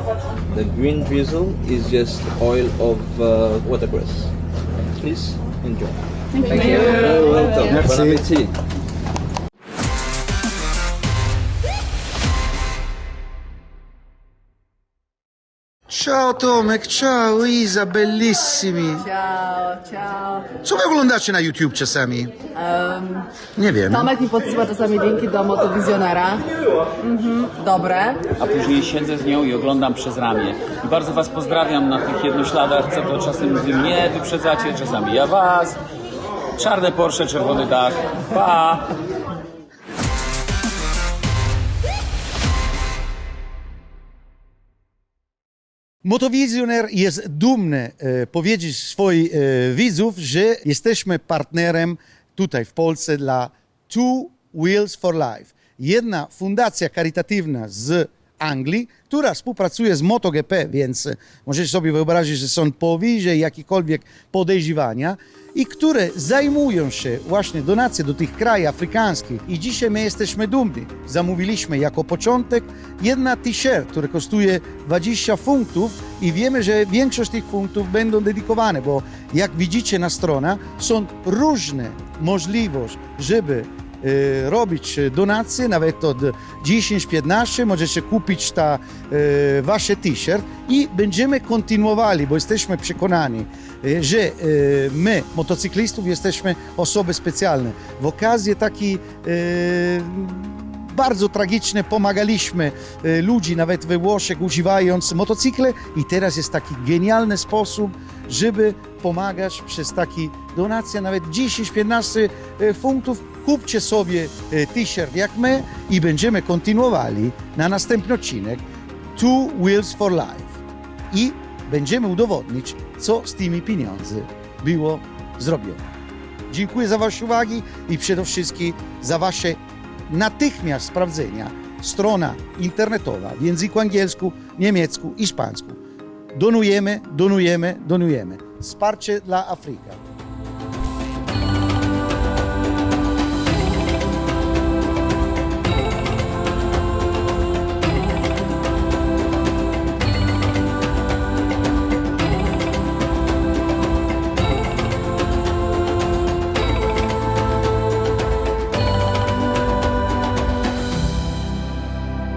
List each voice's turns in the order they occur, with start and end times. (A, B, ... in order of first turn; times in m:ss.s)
0:00.5-0:08.6 A
0:07.7-0:08.2 B
0:15.9-0:19.1 B
0:19.4-0:20.3 C
0:20.6-0:22.3 B
0:22.7-0:23.2 C
0:23.6-0:24.3 B
0:24.2-0:26.4 C
0:27.0-0:28.2 C
0:28.2-0:35.8 D
0:36.6-0:38.8 D
0:46.0-1:58.6 B
1:59.2-2:00.6 B
2:01.1-2:05.8 B
2:06.5-2:15.8 B
2:16.3-2:20.0 B